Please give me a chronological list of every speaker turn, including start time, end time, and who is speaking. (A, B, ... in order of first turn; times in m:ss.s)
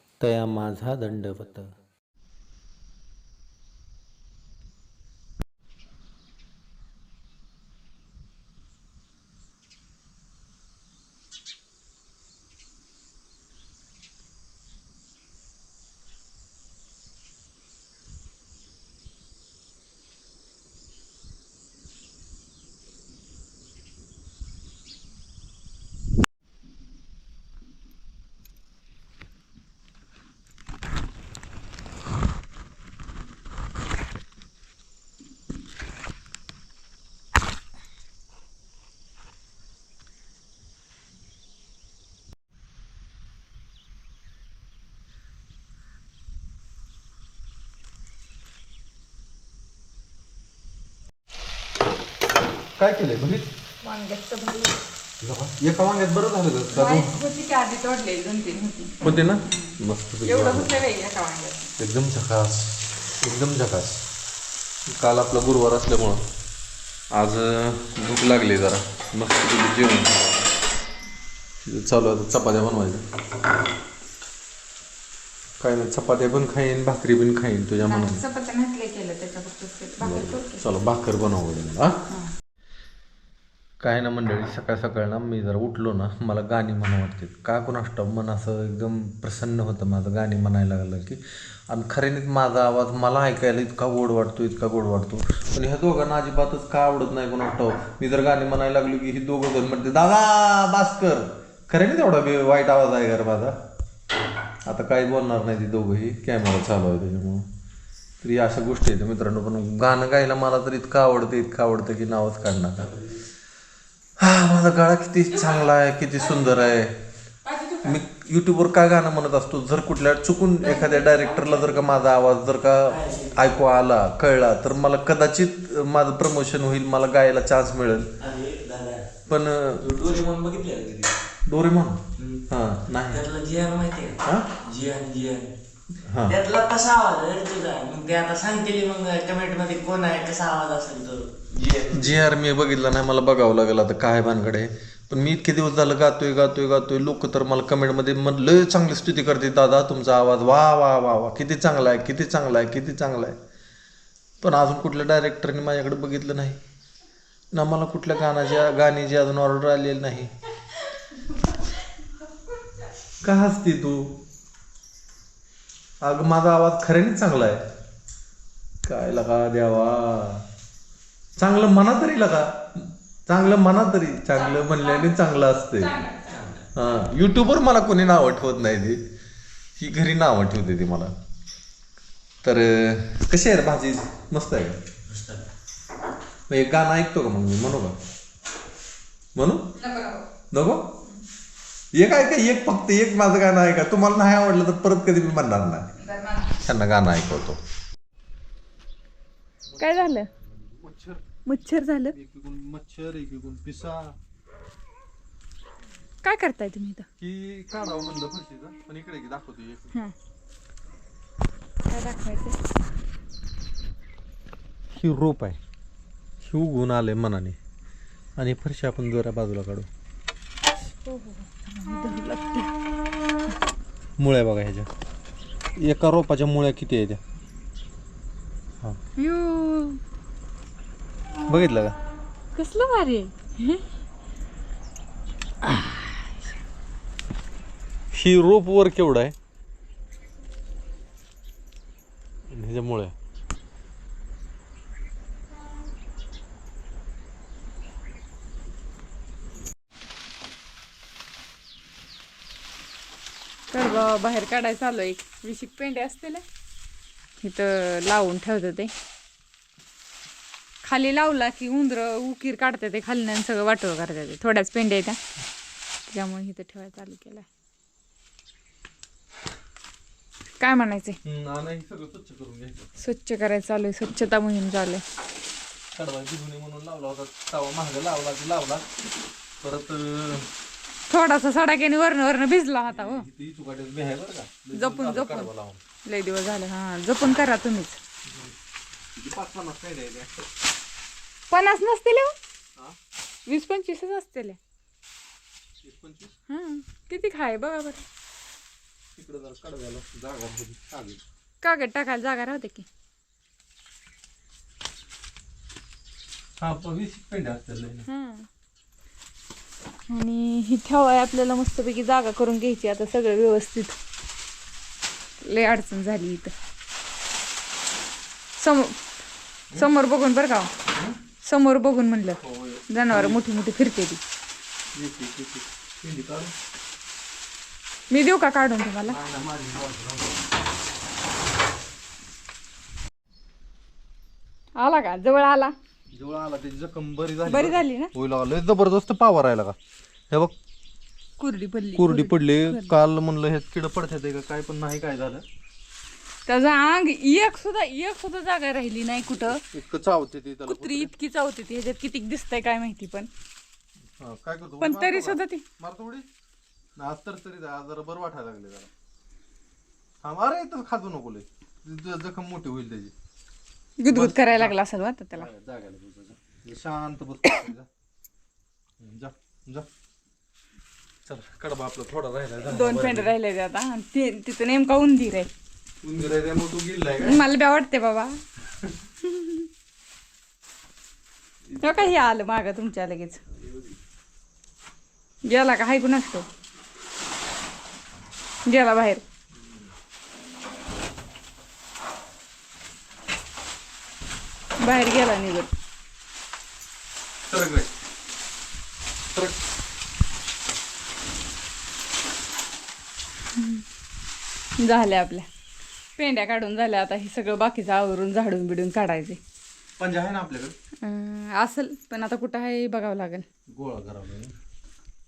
0:00.2-0:01.8 A
0:52.8-0:53.5 A
0:53.8-0:54.8 B
0:55.2-0:57.1 A
0:56.7-1:01.7 B
0:59.0-1:00.8 A
1:01.8-1:04.0 A
1:04.9-1:06.2 A
1:07.1-1:10.4 A
1:11.6-1:13.0 A
1:15.6-1:18.2 A
1:17.8-1:20.6 B
1:20.0-1:22.0 A
1:23.8-1:43.6 A
1:44.7-1:47.4 A
1:48.2-1:53.0 A
1:54.2-1:56.9 A
1:55.3-1:56.8 B
1:57.4-1:58.0 B
1:57.8-2:08.1 A
2:00.6-2:01.9 B
2:02.9-2:03.4 C
2:08.2-2:09.1 C
2:09.3-2:09.9 A
2:09.8-2:11.1 C
2:11.5-2:13.2 A
2:12.2-2:12.4 C
2:13.1-2:15.5 C
2:14.2-2:14.5 A
2:16.0-2:16.4 A
2:16.2-2:22.2 C
2:21.9-2:33.4 A
2:34.4-2:36.6 A
2:37.5-2:40.3 A
2:41.3-2:41.6 B
2:43.2-2:44.2 A
2:46.0-2:47.6 A
2:48.8-2:50.4 A
2:51.4-2:56.0 A
2:54.4-2:56.4 B
2:56.7-2:59.0 A
2:59.8-3:01.1 A
3:02.4-3:04.8 A
3:05.1-3:05.4 C
3:06.5-3:08.0 A
3:09.3-3:09.7 A
3:09.8-3:10.2 B
3:10.5-3:10.9 A
3:11.9-3:15.9 A
3:16.0-3:16.5 B
3:16.6-3:17.6 A
3:19.8-3:20.3 B
3:20.7-3:21.2 A
3:21.4-3:22.2 B
3:22.1-3:24.2 A
3:26.2-3:27.1 B
3:27.2-3:29.9 A
3:31.9-3:32.6 B
3:34.9-3:35.6 A
3:36.4-3:37.6 A
3:38.4-3:39.9 A
3:40.8-3:42.8 B
3:44.2-3:44.9 A
3:45.8-3:47.2 A
3:49.2-3:50.0 B
3:51.5-3:52.0 A
3:52.5-3:53.8 B
3:55.6-3:56.3 B
3:58.1-3:59.3 A
4:02.5-4:03.1 A
4:13.7-4:16.4 B
4:17.4-4:18.9 B
4:20.8-4:25.2 B
4:26.1-4:27.4 B
4:30.6-4:31.2 B
4:31.2-4:32.9 A
4:33.0-4:35.0 B
4:35.9-4:38.8 A
4:39.6-4:40.5 A
4:41.1-4:43.3 B
4:42.8-4:45.8 A
4:44.7-4:45.5 B
4:46.0-4:48.0 B
4:49.2-4:50.3 A
4:51.5-4:52.4 B
4:53.5-4:54.6 B
4:55.8-4:56.3 A
4:56.5-4:58.0 B
4:59.2-5:01.2 A
5:01.6-5:02.8 B
5:06.6-5:08.0 A
5:08.0-5:08.5 B
5:10.1-5:13.9 B
5:15.4-5:16.5 B
5:18.6-5:19.0 B
5:19.7-5:20.7 B
5:21.4-5:24.2 B
5:22.4-5:23.4 A
5:24.9-5:26.5 A
5:28.1-5:29.2 B
5:29.0-5:30.4 A
5:34.8-5:35.7 B
5:36.1-5:39.8 A
5:37.4-5:38.1 B
5:41.4-5:43.0 B
5:42.0-5:45.4 A
5:46.5-5:49.6 B
5:49.5-5:51.1 A
5:50.7-5:53.3 B
5:54.2-5:56.2 A
5:54.8-5:55.6 B
5:57.0-5:58.9 A
6:00.2-6:03.1 A
6:04.0-6:05.5 B
6:04.0-6:04.8 A
6:05.3-6:07.9 A
6:09.0-6:09.9 A
6:11.2-6:13.3 A
6:12.6-6:15.5 B
6:16.0-6:17.4 A
6:17.2-6:18.4 B
6:19.2-6:19.7 B
6:21.7-6:22.2 A
6:21.8-6:23.4 B
6:23.6-6:23.9 A
6:25.4-6:26.5 B
6:28.6-6:29.2 B
6:29.6-6:29.9 A
6:34.8-6:35.7 B
6:37.5-6:37.9 A
6:43.6-6:43.8 B
6:44.8-6:45.5 B
6:46.2-6:49.4 B
6:50.0-6:50.7 A
6:51.0-6:53.4 B
6:53.7-6:54.5 A